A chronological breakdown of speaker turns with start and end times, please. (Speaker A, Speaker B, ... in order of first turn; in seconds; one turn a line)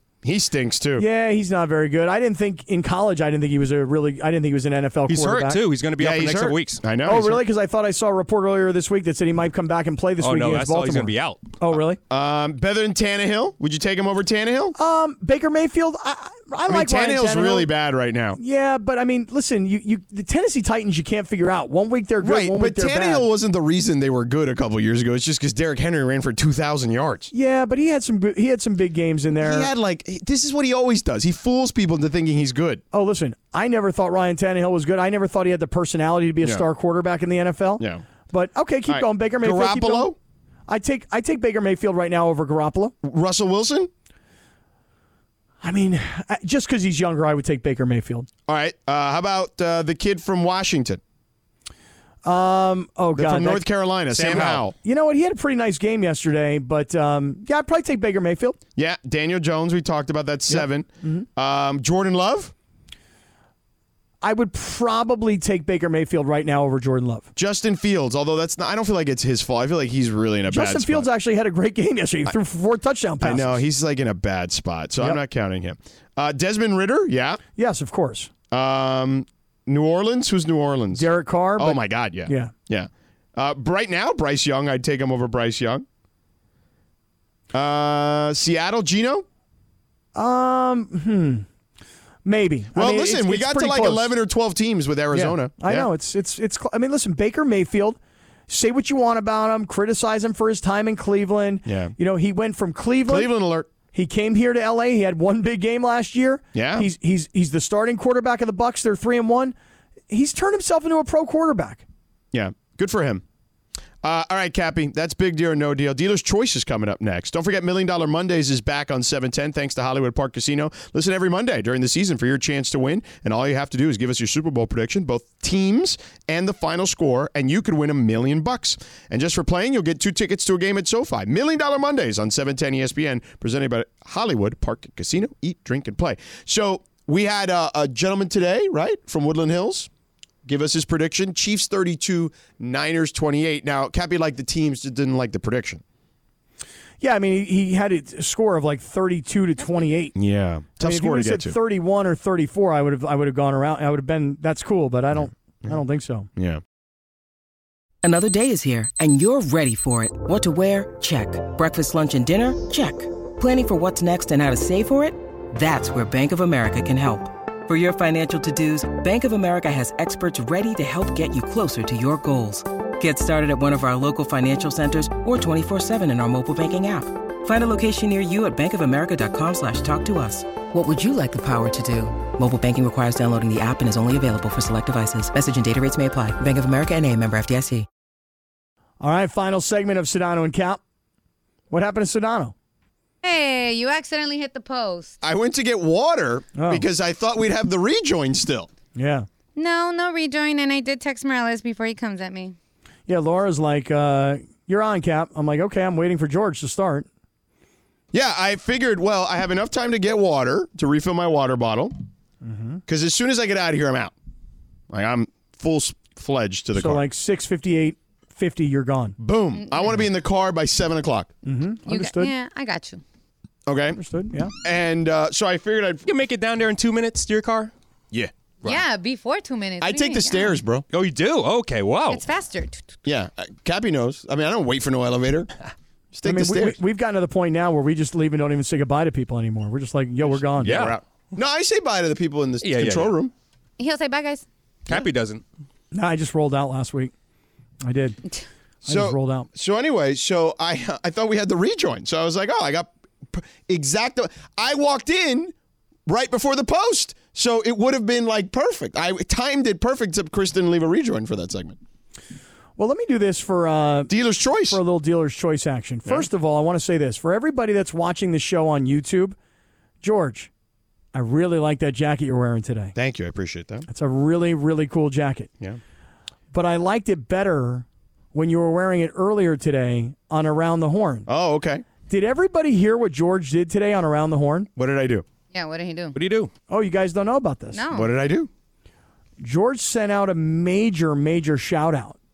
Speaker A: 0.2-1.0
Speaker B: 1.0-5.6
Speaker C: 5.1-6.8
Speaker A: 6.0-7.4
Speaker B: 7.0-12.0
Speaker C: 10.2-11.6
Speaker A: 12.1-14.7
Speaker B: 14.7-17.7
Speaker A: 16.7-18.4
Speaker B: 18.4-23.2
Speaker A: 22.2-27.3
Speaker B: 27.3-29.7
Speaker A: 29.4-32.8
Speaker B: 32.9-40.1
Speaker A: 38.9-40.1
Speaker B: 40.7-42.9
Speaker A: 43.0-43.9
Speaker B: 45.6-48.3
Speaker A: 48.5-51.0
Speaker B: 52.2-53.6
Speaker A: 53.1-54.7
Speaker C: 54.1-54.6
Speaker B: 54.3-58.6
Speaker A: 58.8-62.5
Speaker B: 60.5-61.2
Speaker B: 64.2-67.3
Speaker A: 67.3-71.0
Speaker B: 70.5-73.6
Speaker A: 73.2-77.4
Speaker B: 77.6-78.3
Speaker A: 78.5-85.8
Speaker B: 80.9-82.5
Speaker A: 87.5-89.2
Speaker B: 90.1-91.5
Speaker B: 92.2-94.1
Speaker A: 92.7-95.9
Speaker B: 95.1-98.0
Speaker B: 98.5-103.3
Speaker A: 101.7-101.9
Speaker A: 103.1-103.7
Speaker B: 103.9-109.5
Speaker A: 106.5-106.9
Speaker B: 110.1-111.8
Speaker A: 112.3-113.2
Speaker A: 114.0-139.9
Speaker A: 140.4-145.8
Speaker B: 147.0-150.2
Speaker A: 150.2-151.6
Speaker B: 150.8-156.3
Speaker A: 156.3-156.6
Speaker D: 158.0-187.9
Speaker B: 189.0-190.8
Speaker B: 191.7-192.5
Speaker E: 193.2-195.2
Speaker A: 195.2-198.7
Speaker B: 196.6-196.8
Speaker B: 198.9-199.2
Speaker E: 199.6-202.6
Speaker B: 203.1-207.1
Speaker A: 208.1-211.9
Speaker B: 212.4-212.8
Speaker A: 212.9-214.1
Speaker A: 214.9-217.0
Speaker B: 216.8-219.2
Speaker A: 219.2-221.3
Speaker E: 219.6-219.9
Speaker B: 221.4-222.3
Speaker E: 221.9-223.0
Speaker A: 223.7-224.0
Speaker B: 223.9-224.5
Speaker A: 224.6-226.0
Speaker C: 226.1-227.7
Speaker E: 228.6-230.6
Speaker A: 229.8-230.8
Speaker C: 230.9-232.2
Speaker E: 232.1-232.9
Speaker A: 233.0-235.5
Speaker A: 236.1-236.8
Speaker B: 236.2-240.9
Speaker A: 240.6-243.3
Speaker C: 240.6-240.9
Speaker C: 242.6-243.1
Speaker E: 243.8-244.4
Speaker C: 244.9-245.4
Speaker B: 245.9-247.1
Speaker B: 247.8-248.2
Speaker B: 248.8-249.5
Speaker A: 248.9-255.5
Speaker A: 256.1-261.8
Speaker B: 262.8-264.1
Speaker A: 264.1-264.8
Speaker B: 264.7-269.4
Speaker B: 270.0-270.5
Speaker B: 271.1-272.9
Speaker A: 272.9-273.9
Speaker B: 273.9-275.5
Speaker B: 276.5-281.3
Speaker A: 281.3-281.8
Speaker B: 282.1-284.7
Speaker A: 284.8-285.2
Speaker E: 285.5-286.2
Speaker C: 286.1-286.5
Speaker B: 286.7-287.8
Speaker E: 287.7-288.1
Speaker A: 287.9-288.5
Speaker B: 289.4-292.1